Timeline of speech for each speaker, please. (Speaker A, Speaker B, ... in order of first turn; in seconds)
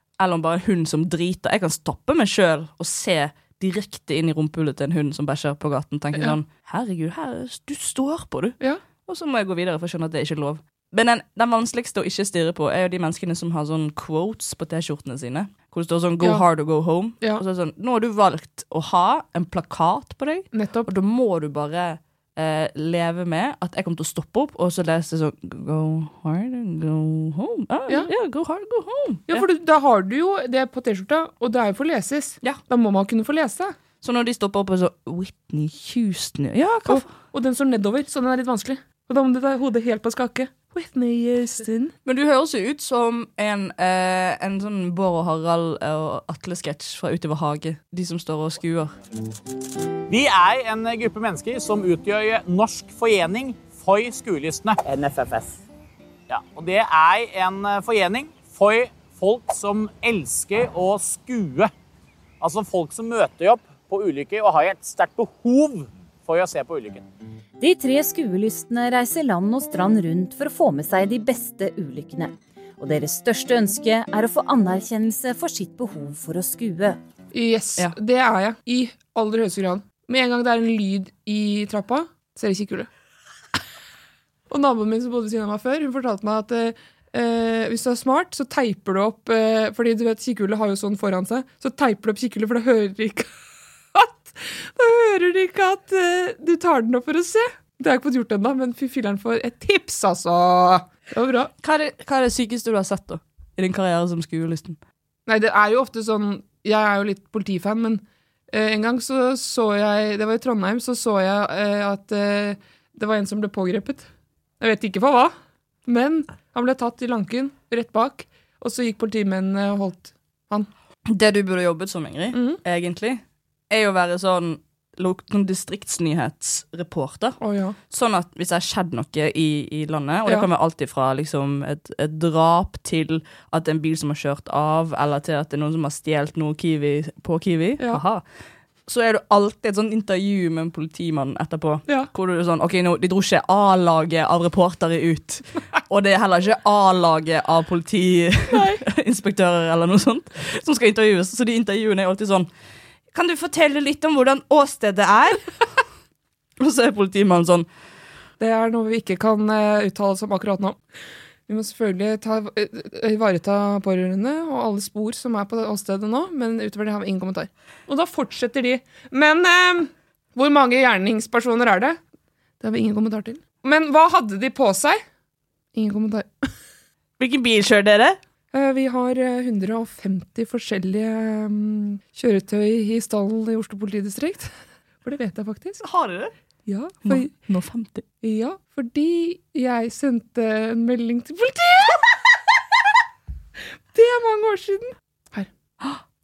Speaker A: 0.2-29.4, 34.0-37.1, 42.0-48.9, 101.6-104.8, 121.1-127.4, 127.9-138.2, 138.9-152.5, 153.1-155.4, 156.6-157.7, 177.2-178.2, 185.8-186.3, 187.0-188.0
Speaker B: 20.5-20.9, 29.3-33.7, 36.9-41.9, 77.3-82.9, 84.5-93.3, 93.9-101.5, 105.3-114.0, 114.6-115.3, 115.8-120.7, 122.3-122.6, 127.4-127.8, 148.5-148.8, 158.4-160.8, 161.5-172.0, 172.6-175.0, 175.7-176.5, 178.5-184.5, 185.0-185.8, 186.7-187.3, 188.2-192.1, 193.9-195.5
Speaker C: 50.1-55.6, 56.3-61.7, 62.4-67.0
Speaker D: 67.6-77.0